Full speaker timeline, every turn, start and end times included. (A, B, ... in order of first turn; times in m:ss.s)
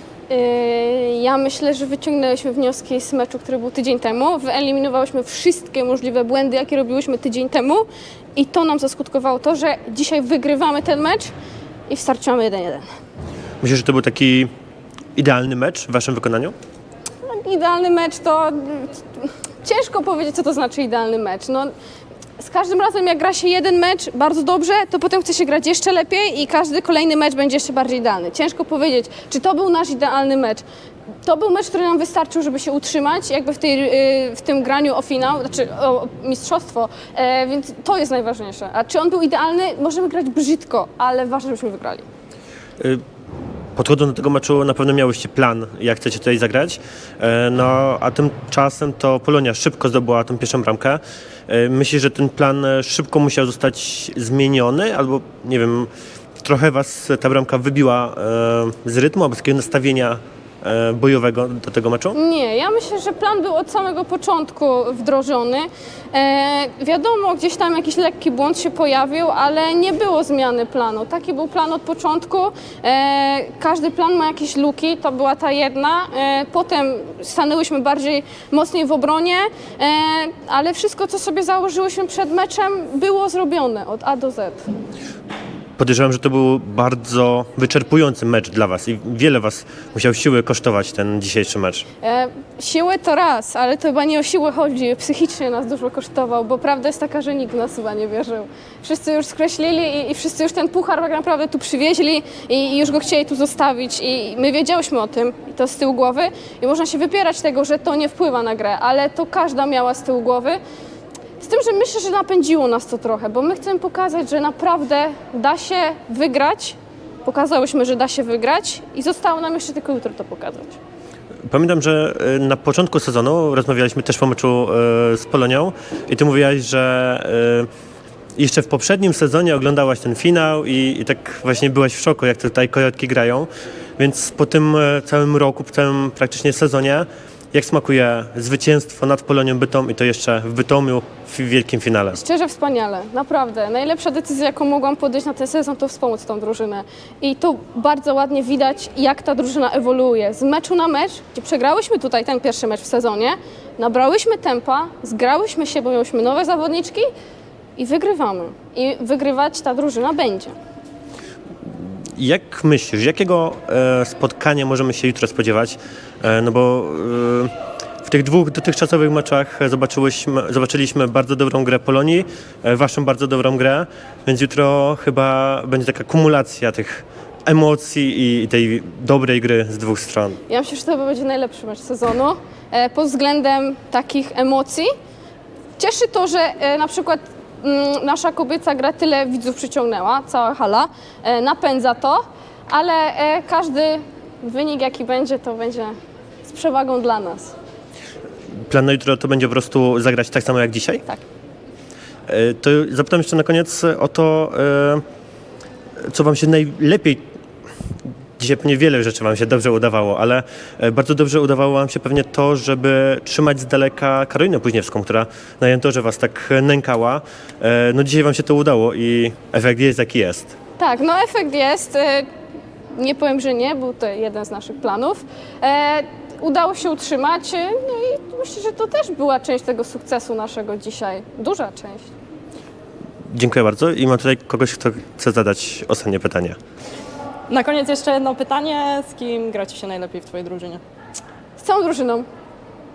0:00.3-0:11.3 A
0:11.9-0:12.8 A
0:13.6-0:14.5 B
0:15.1-0:16.5 B
0:17.2-0:21.7 A
0:22.4-0:30.6 A
0:31.2-0:42.0 A
0:43.8-0:55.9 B
0:56.4-1:02.2 B
1:02.1-1:24.7 A
1:25.8-1:31.8 B
1:32.0-1:50.6 A
1:51.4-2:00.8 A
2:01.5-2:07.7 B
2:08.4-2:22.2 B
2:22.1-2:37.1 A
2:37.8-2:40.5 A
2:41.7-2:47.5 B
2:48.0-3:00.4 B
3:00.5-3:04.9 A
3:05.8-3:17.5 A
3:18.7-3:21.0 B
3:22.3-3:25.0 B
3:26.1-3:27.2 B
3:28.4-3:40.5 B
3:40.8-3:42.3 A
3:43.0-3:52.1 A
3:53.3-3:56.6 B
3:57.5-4:00.8 C
4:01.6-4:02.3 A